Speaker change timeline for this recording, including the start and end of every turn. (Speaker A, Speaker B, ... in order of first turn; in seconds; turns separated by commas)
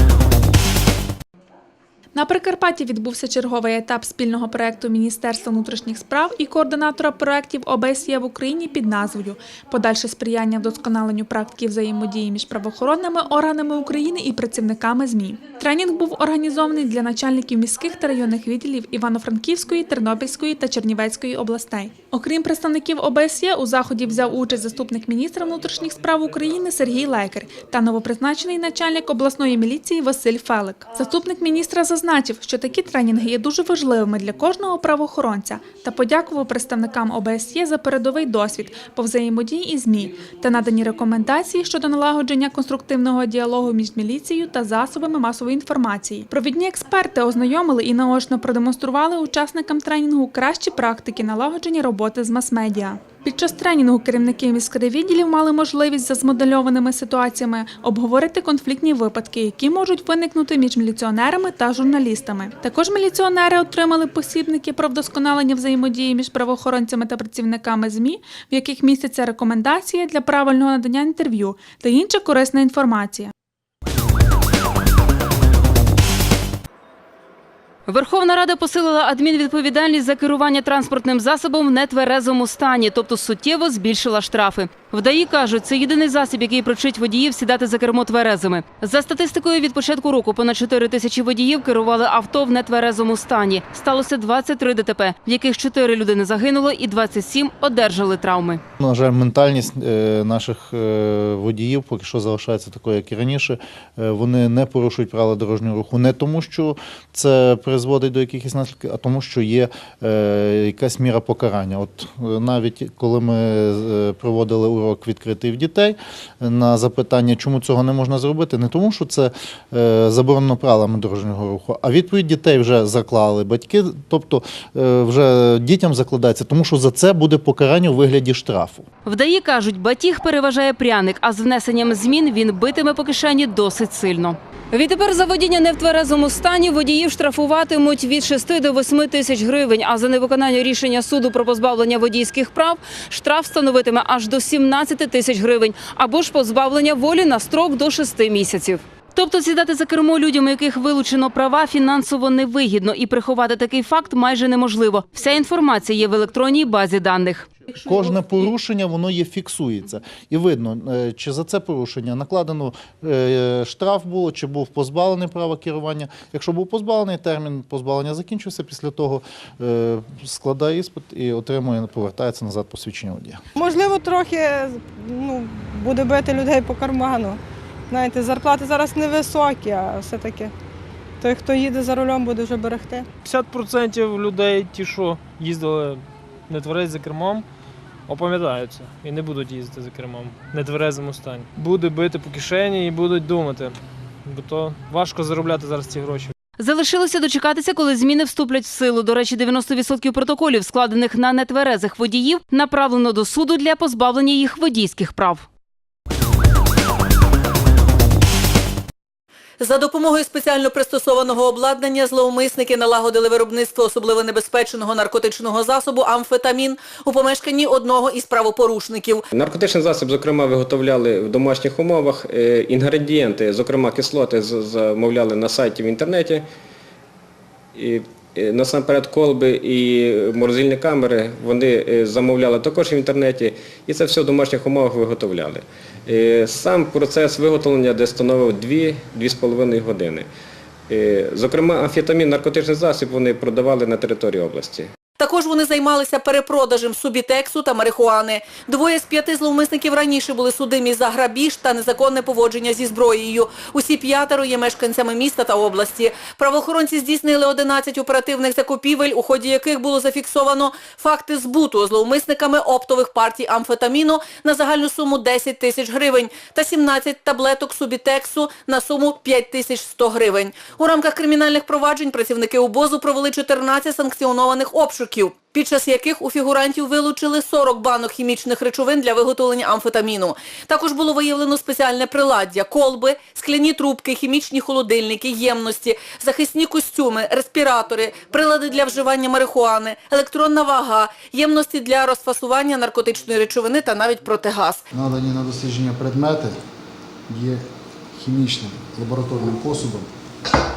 Speaker A: 2.1-73.3, Speaker B: 77.9-98.6, Speaker C: 98.8-128.9, Speaker B: 129.1-157.4, Speaker C: 157.7-173.4, Speaker D: 173.6-180.5, Speaker D: 181.2-183.1, Speaker E: 183.2-187.5, Speaker E: 188.1-196.3, Speaker B: 196.7-205.4, Speaker F: 209.6-219.2, Speaker G: 219.3-226.5, Speaker G: 227.8-240.3, Speaker G: 240.9-244.9, Speaker F: 245.2-294.8, Speaker H: 294.9-296.6, Speaker H: 297.3-297.6, Speaker H: 298.2-300.1